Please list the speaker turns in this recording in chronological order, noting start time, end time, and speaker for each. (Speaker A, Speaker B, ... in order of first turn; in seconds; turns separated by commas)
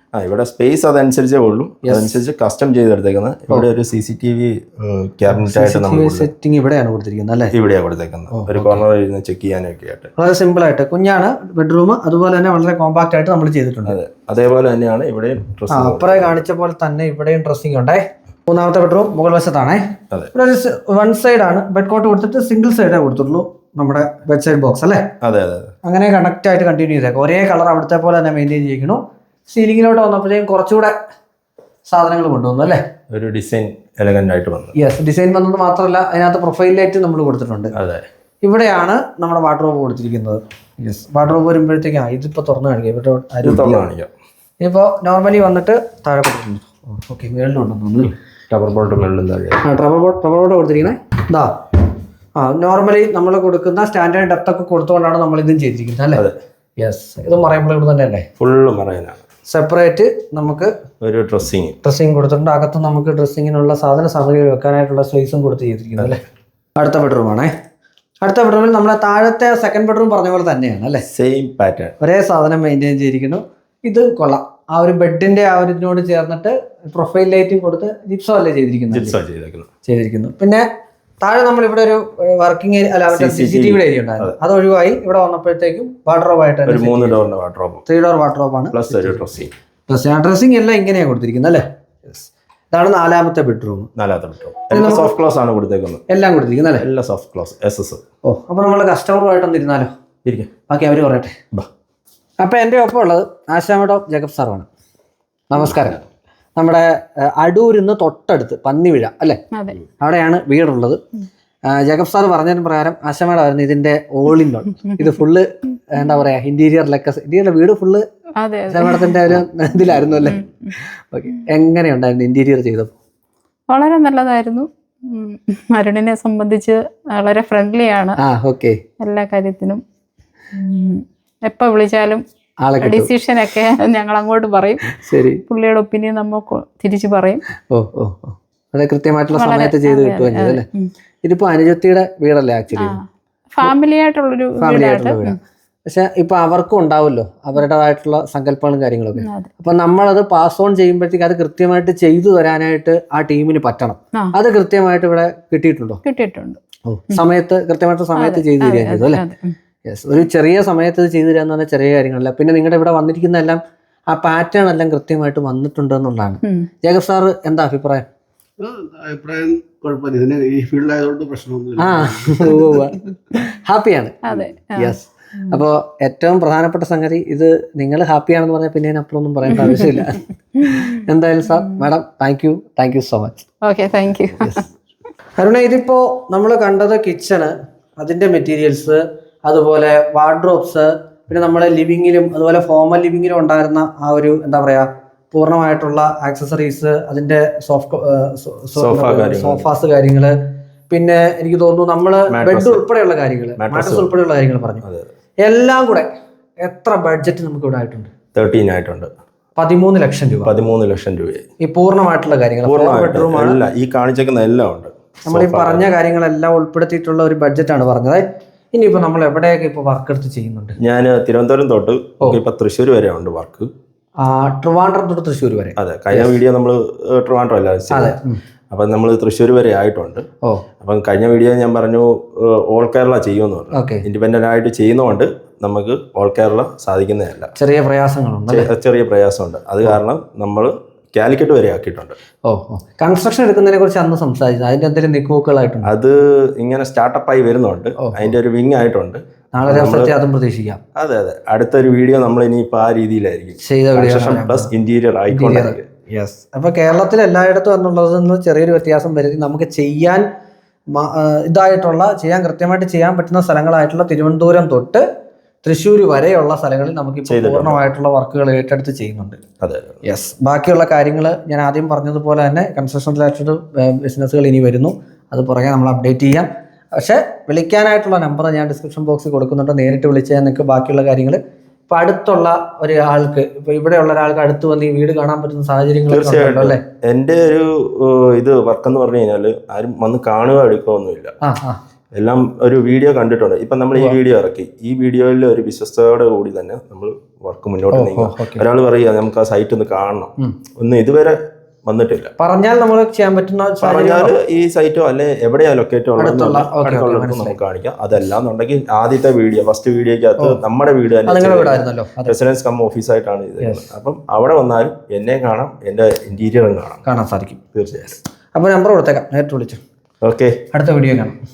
Speaker A: 0.1-6.3, Speaker B: 1.8-2.2, Speaker B: 5.3-7.5, Speaker A: 7.5-10.1, Speaker B: 8.3-8.8, Speaker B: 10.2-14.0, Speaker A: 13.8-16.4, Speaker B: 15.7-19.8, Speaker B: 20.3-25.1, Speaker A: 25.2-25.7, Speaker B: 25.8-30.9, Speaker B: 31.9-32.8, Speaker A: 33.1-34.7, Speaker B: 34.7-37.7, Speaker A: 37.7-38.0, Speaker B: 38.4-43.8, Speaker A: 43.4-44.1, Speaker B: 44.6-48.1, Speaker A: 48.5-49.6, Speaker B: 49.6-51.6, Speaker B: 52.4-56.2, Speaker B: 56.8-58.3, Speaker A: 58.4-59.2, Speaker B: 59.5-60.7, Speaker A: 61.0-61.8, Speaker B: 61.8-66.2, Speaker B: 66.8-67.5, Speaker B: 68.2-71.0, Speaker A: 71.1-71.9, Speaker B: 72.0-79.2, Speaker A: 78.9-79.7, Speaker B: 79.8-80.7, Speaker B: 81.2-87.2, Speaker A: 83.1-84.3, Speaker A: 86.7-87.8, Speaker B: 87.8-89.2, Speaker A: 88.7-89.5, Speaker B: 89.9-93.9, Speaker A: 94.0-96.0, Speaker B: 94.7-95.1, Speaker B: 96.1-96.8, Speaker A: 96.8-98.0, Speaker B: 98.2-99.9, Speaker A: 100.2-100.5, Speaker B: 100.7-101.3, Speaker B: 102.4-104.7, Speaker B: 105.5-106.0, Speaker B: 106.5-109.4, Speaker C: 109.5-109.8, Speaker B: 110.0-111.0, Speaker B: 111.7-118.0, Speaker C: 118.4-119.3, Speaker B: 118.7-122.9, Speaker C: 120.2-120.7, Speaker C: 123.7-128.2, Speaker B: 128.2-128.8, Speaker C: 129.0-129.8, Speaker C: 130.5-132.2, Speaker B: 132.6-133.1, Speaker C: 132.8-137.4, Speaker B: 134.9-135.4, Speaker B: 137.7-140.6, Speaker C: 139.3-140.9, Speaker B: 141.2-143.0, Speaker C: 142.8-145.3, Speaker B: 144.6-145.3, Speaker B: 145.9-156.0, Speaker C: 149.2-149.5, Speaker C: 156.0-156.6, Speaker B: 156.8-159.2, Speaker C: 158.2-159.5, Speaker B: 159.8-163.6, Speaker B: 164.1-168.1, Speaker D: 168.6-172.8, Speaker B: 171.8-174.2, Speaker C: 174.2-175.6, Speaker B: 174.8-183.5, Speaker C: 183.6-184.6, Speaker B: 185.4-200.3, Speaker A: 198.8-199.7, Speaker B: 200.9-204.8, Speaker A: 202.3-202.8, Speaker A: 203.6-204.1, Speaker A: 204.8-205.1, Speaker B: 205.4-206.1, Speaker B: 206.6-208.1, Speaker A: 208.3-209.1, Speaker B: 209.6-210.5, Speaker A: 210.4-211.5, Speaker B: 211.6-213.6, Speaker A: 212.6-215.9, Speaker B: 215.3-220.8, Speaker A: 220.8-223.7, Speaker B: 224.2-226.3, Speaker A: 225.8-228.2, Speaker B: 227.9-228.4, Speaker A: 228.7-230.2, Speaker A: 230.8-237.5, Speaker B: 233.7-234.0, Speaker B: 237.6-238.7, Speaker A: 238.5-242.2, Speaker B: 242.4-245.9, Speaker A: 245.8-250.1, Speaker B: 248.0-248.3, Speaker B: 249.5-250.8, Speaker A: 250.9-255.8, Speaker B: 253.6-254.7, Speaker B: 255.3-260.2, Speaker B: 260.9-265.0, Speaker B: 265.6-269.4, Speaker A: 267.3-267.8, Speaker A: 269.6-270.0, Speaker B: 270.0-286.8, Speaker A: 286.1-291.3, Speaker B: 291.4-291.8, Speaker A: 292.1-302.3, Speaker B: 297.9-298.6, Speaker B: 302.4-304.4, Speaker A: 303.8-317.0, Speaker B: 306.2-307.6, Speaker B: 311.2-312.3, Speaker B: 317.0-317.6, Speaker A: 317.7-318.2, Speaker B: 318.5-319.8, Speaker A: 320.2-320.6, Speaker B: 320.7-321.4